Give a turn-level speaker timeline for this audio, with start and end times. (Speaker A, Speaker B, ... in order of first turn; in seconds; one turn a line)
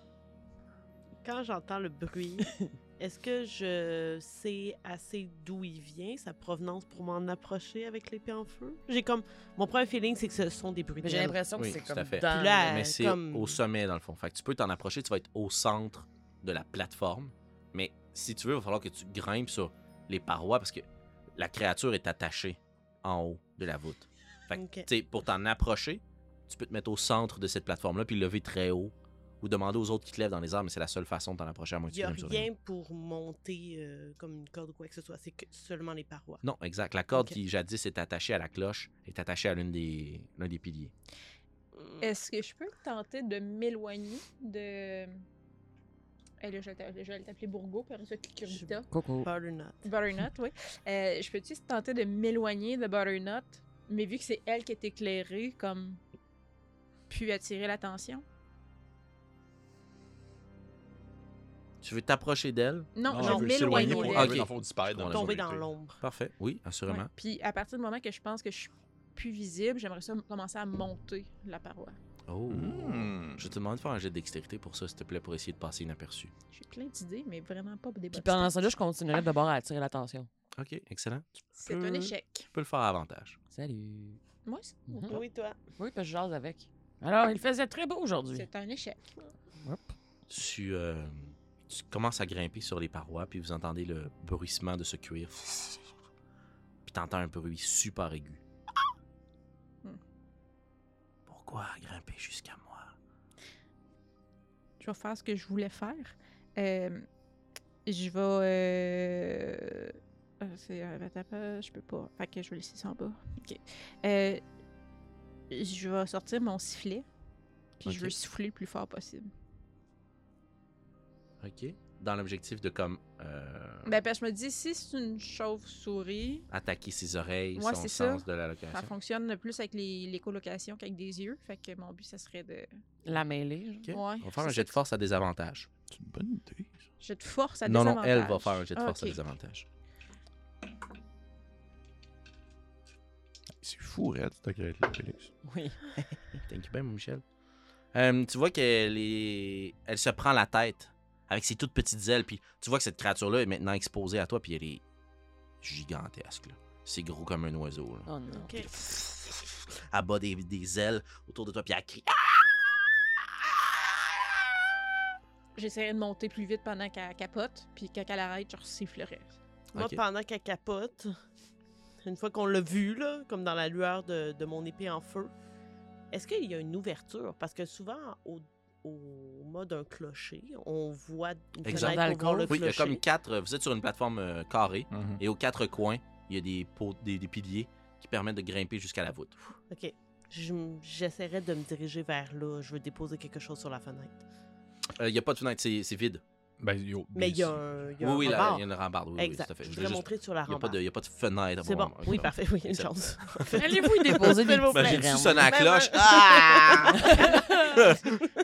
Speaker A: 1.2-11.4
Speaker B: 11.0-13.1
Speaker C: 11.6-32.5
Speaker A: 12.2-13.6
Speaker A: 24.5-24.9
Speaker A: 31.9-36.4
Speaker C: 36.4-40.9
Speaker A: 41.8-42.1
Speaker D: 42.0-45.2
Speaker D: 46.4-48.9
Speaker A: 48.5-49.8
Speaker B: 48.9-49.3
Speaker D: 49.8-56.0
Speaker D: 57.1-58.2
Speaker C: 61.8-62.9
Speaker D: 63.0-64.4
Speaker E: 63.1-65.7
Speaker A: 63.2-64.4
Speaker C: 64.0-65.4
Speaker A: 65.0-66.0
Speaker C: 66.0-67.1
Speaker D: 66.9-72.0
Speaker C: 72.3-76.3
Speaker E: 72.5-73.5
Speaker D: 76.5-78.7
Speaker B: 78.1-80.3
Speaker C: 80.5-83.4
Speaker D: 81.5-82.5
Speaker B: 83.5-84.2
Speaker D: 84.4-85.1
Speaker B: 84.9-85.2
Speaker A: 85.1-85.6
Speaker B: 85.7-88.5
Speaker D: 88.3-89.0
Speaker B: 89.6-89.9
Speaker C: 90.3-95.3
Speaker C: 96.8-98.4
Speaker C: 101.3-102.9
Speaker D: 104.8-107.0
Speaker D: 107.8-114.4
Speaker D: 115.5-117.0
Speaker D: 117.8-119.3
Speaker E: 117.8-118.1
Speaker C: 121.4-123.9
Speaker D: 123.8-126.5
Speaker C: 126.5-128.9
Speaker D: 127.5-132.7
Speaker B: 133.0-133.9
Speaker C: 133.8-135.7
Speaker D: 133.9-134.8
Speaker E: 135.9-136.7
Speaker D: 137.0-139.2
Speaker C: 137.6-139.6
Speaker E: 143.6-145.3
Speaker B: 145.4-146.4
Speaker C: 146.5-147.2
Speaker C: 147.9-154.8
Speaker C: 155.6-158.1
Speaker B: 158.1-158.7
Speaker A: 158.3-158.7
Speaker C: 158.6-163.9
Speaker D: 165.5-169.3
Speaker A: 169.7-171.1
Speaker C: 169.7-170.0
Speaker A: 172.0-175.3
Speaker A: 176.1-183.0
Speaker B: 181.6-182.6
Speaker C: 181.7-189.5
Speaker E: 184.9-185.2
Speaker A: 189.7-194.2
Speaker C: 194.9-196.2
Speaker E: 196.6-197.7
Speaker A: 197.1-200.8
Speaker C: 198.0-203.6
Speaker A: 201.6-208.2
Speaker B: 203.5-205.6
Speaker C: 204.6-208.2
Speaker B: 207.0-207.4